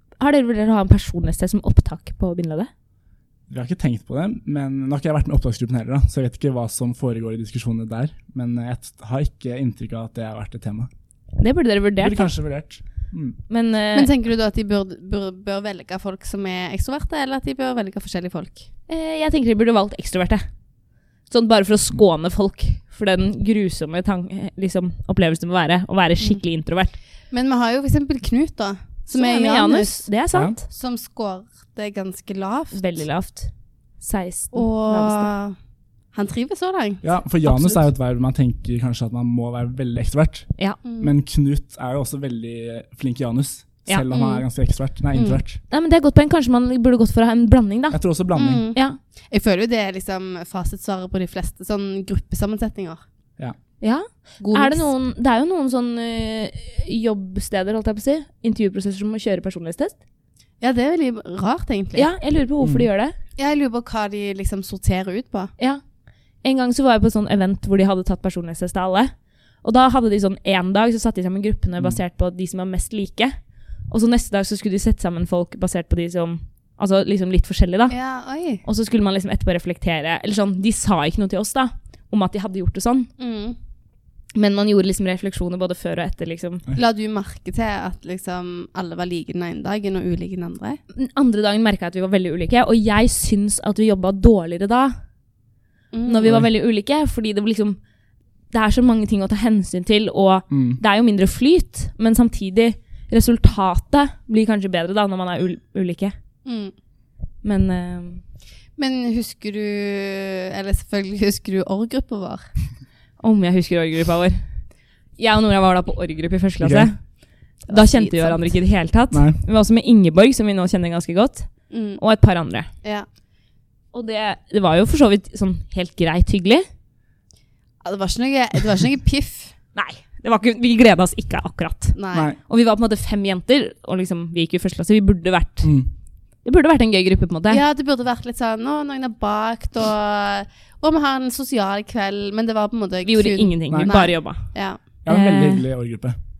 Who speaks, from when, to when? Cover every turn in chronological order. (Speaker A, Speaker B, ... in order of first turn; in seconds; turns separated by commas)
Speaker A: 0.2-2.7, Speaker B: 3.5-10.9, Speaker A: 11.4-12.3, Speaker B: 12.0-13.4, Speaker A: 13.5-14.1, Speaker C: 13.9-18.7, Speaker A: 18.9-20.4, Speaker A: 21.3-27.0, Speaker C: 27.3-30.1, Speaker A: 29.1-30.7, Speaker C: 30.7-32.9, Speaker A: 32.7-35.3, Speaker C: 34.5-35.5, Speaker C: 36.1-37.1, Speaker B: 37.0-45.6, Speaker C: 40.8-41.1, Speaker C: 45.1-45.4, Speaker A: 45.7-48.0, Speaker B: 47.9-48.6, Speaker C: 48.4-48.8, Speaker C: 49.3-53.0, Speaker A: 53.8-60.0, Speaker C: 54.4-54.9, Speaker C: 60.6-62.1, Speaker A: 62.0-63.1, Speaker C: 63.4-65.5, Speaker A: 66.4-69.1, Speaker A: 69.6-73.3, Speaker A: 73.9-78.0, Speaker C: 77.9-78.6, Speaker A: 78.6-83.1, Speaker C: 83.2-83.6, Speaker A: 84.3-86.6, Speaker C: 86.8-90.8, Speaker A: 90.9-95.0, Speaker C: 95.9-96.3, Speaker A: 96.1-97.8, Speaker A: 98.5-106.1, Speaker B: 100.5-100.8, Speaker C: 106.5-106.7, Speaker A: 107.4-108.2, Speaker C: 108.8-112.5, Speaker A: 113.2-114.4, Speaker A: 115.2-117.0, Speaker B: 116.6-116.9, Speaker C: 117.7-118.6, Speaker A: 117.7-122.7, Speaker B: 119.1-119.4, Speaker C: 121.7-122.0, Speaker A: 123.9-126.7, Speaker C: 127.8-129.5, Speaker A: 129.8-135.7, Speaker C: 131.9-132.3, Speaker B: 135.6-135.9, Speaker A: 136.4-137.6, Speaker C: 137.5-144.8, Speaker A: 143.0-144.5, Speaker B: 145.1-146.2, Speaker A: 145.1-145.7